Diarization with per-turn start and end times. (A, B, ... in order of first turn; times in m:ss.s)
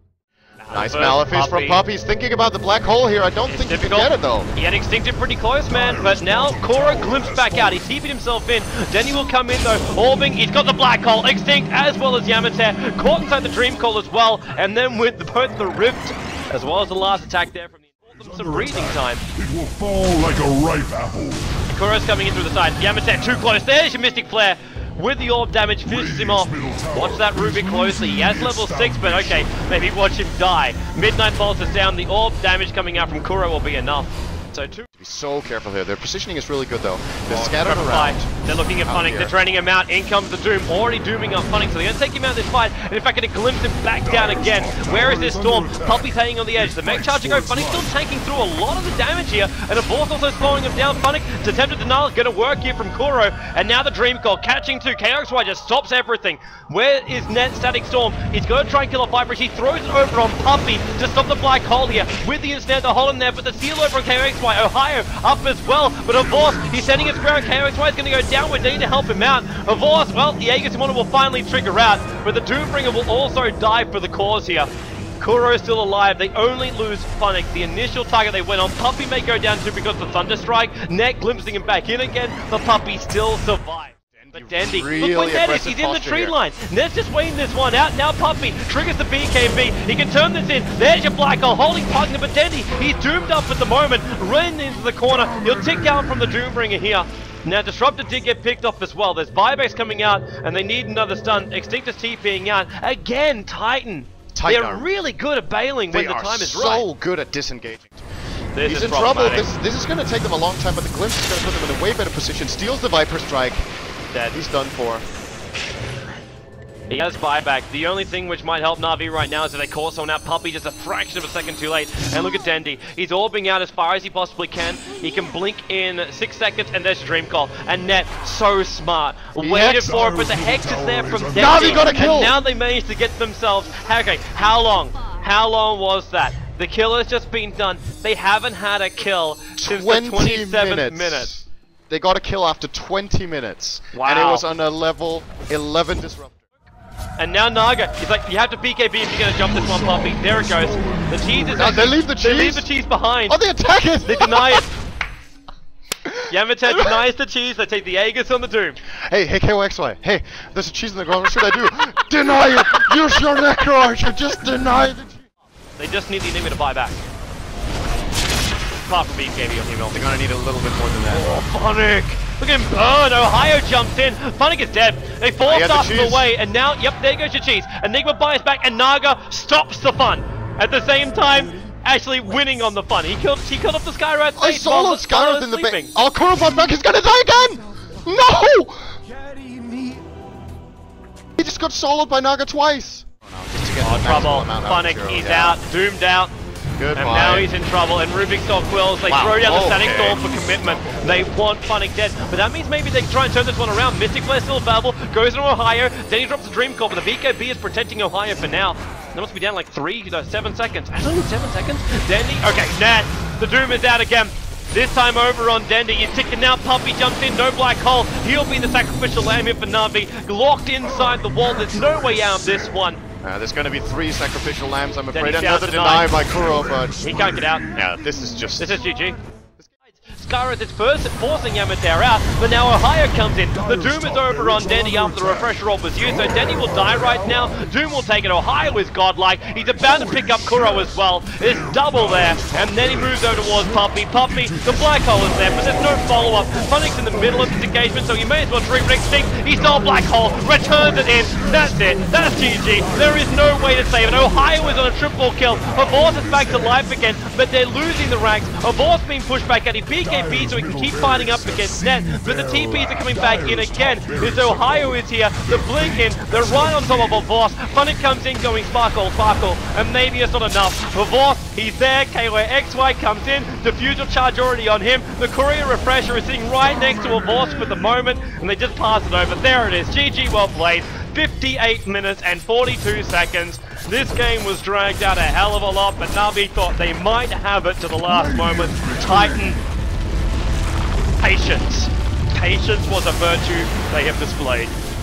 0:00.6-0:01.8 A
0:00.7-0:04.5 B
0:03.4-0:19.2 A
0:05.7-0:07.8 C
0:18.2-0:21.6 C
0:21.7-0:34.9 A
0:25.8-0:29.6 C
0:35.0-0:38.3 B
0:37.3-1:46.9 A
0:38.8-0:39.3 B
0:44.0-0:47.9 C
1:24.2-1:26.3 B
1:35.1-1:36.2 C
1:44.3-1:44.9 B
1:45.9-1:48.0 B
1:48.5-1:49.5 A
1:48.6-1:53.6 B
1:54.2-1:55.0 B
1:56.9-2:21.3 A
2:09.4-2:10.0 B
2:09.7-2:12.1 C
2:11.3-2:12.4 B
2:19.6-2:26.6 B
2:23.9-2:24.4 A
2:27.2-2:33.4 A
2:29.4-2:31.8 C
2:31.5-2:32.7 B
2:33.3-2:34.6 B
2:34.0-2:34.7 A
2:36.3-2:38.8 A
2:36.7-2:37.0 B
2:39.0-2:45.2 B
2:45.8-2:47.0 A
2:48.8-2:50.1 A
2:49.9-2:51.4 B
2:51.1-3:05.9 A
2:55.4-2:56.3 B
3:04.4-3:09.0 B
3:11.4-3:15.6 B
3:13.8-3:16.3 A
3:16.8-3:17.5 B
3:17.0-3:43.0 A
3:19.1-3:20.2 B
3:41.0-3:42.6 C
3:43.2-3:47.0 B
3:45.1-3:46.2 A
3:46.2-3:48.0 C
3:47.0-3:47.6 A
3:47.7-3:48.8 B
3:48.6-3:49.2 A
3:50.0-4:49.6 A
3:53.5-3:57.9 C
3:59.7-4:06.1 C
4:09.5-4:14.9 C
4:15.5-4:16.8 C
4:20.0-4:27.2 C
4:48.0-4:49.6 C
4:51.2-4:54.7 A